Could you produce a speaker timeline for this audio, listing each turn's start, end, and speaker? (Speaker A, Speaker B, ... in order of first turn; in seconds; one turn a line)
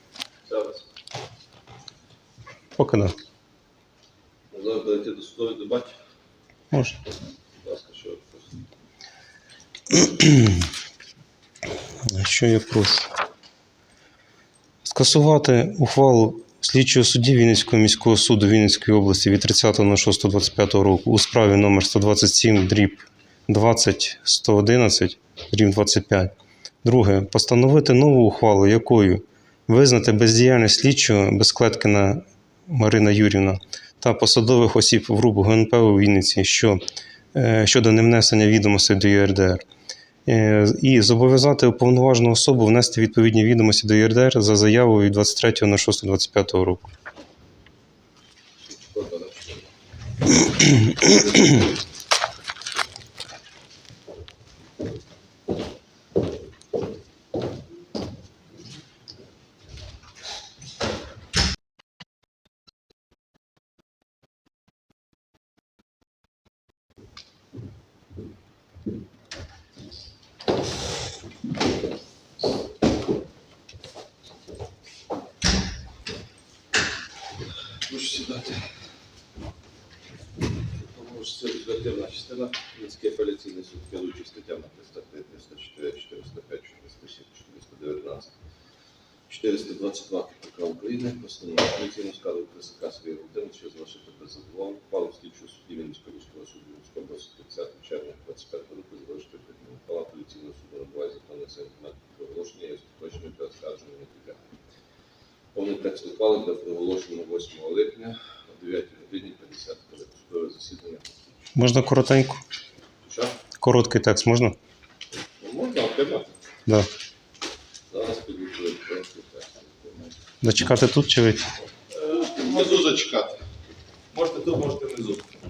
Speaker A: 0.5-0.8
Speaker B: 2.8-3.1
Speaker A: 4.5-6.0
Speaker B: 6.7-7.0
Speaker A: 7.6-8.6
Speaker B: 9.9-10.7
Speaker B: 12.1-13.1
Speaker B: 14.9-26.3
Speaker B: 26.8-36.8
Speaker B: 37.3-39.6
Speaker B: 40.3-46.9
Speaker A: 48.6-49.6
Speaker A: 77.8-78.8
Speaker A: 80.7-88.3
Speaker A: 89.3-104.5
Speaker A: 105.5-111.5
Speaker B: 111.5-112.4
Speaker A: 113.0-113.4
Speaker B: 113.6-114.6
Speaker A: 115.4-116.3
Speaker A: 117.9-120.1
Speaker B: 120.4-121.5
Speaker C: 122.0-123.2
Speaker A: 122.0-123.4
Speaker C: 124.1-125.2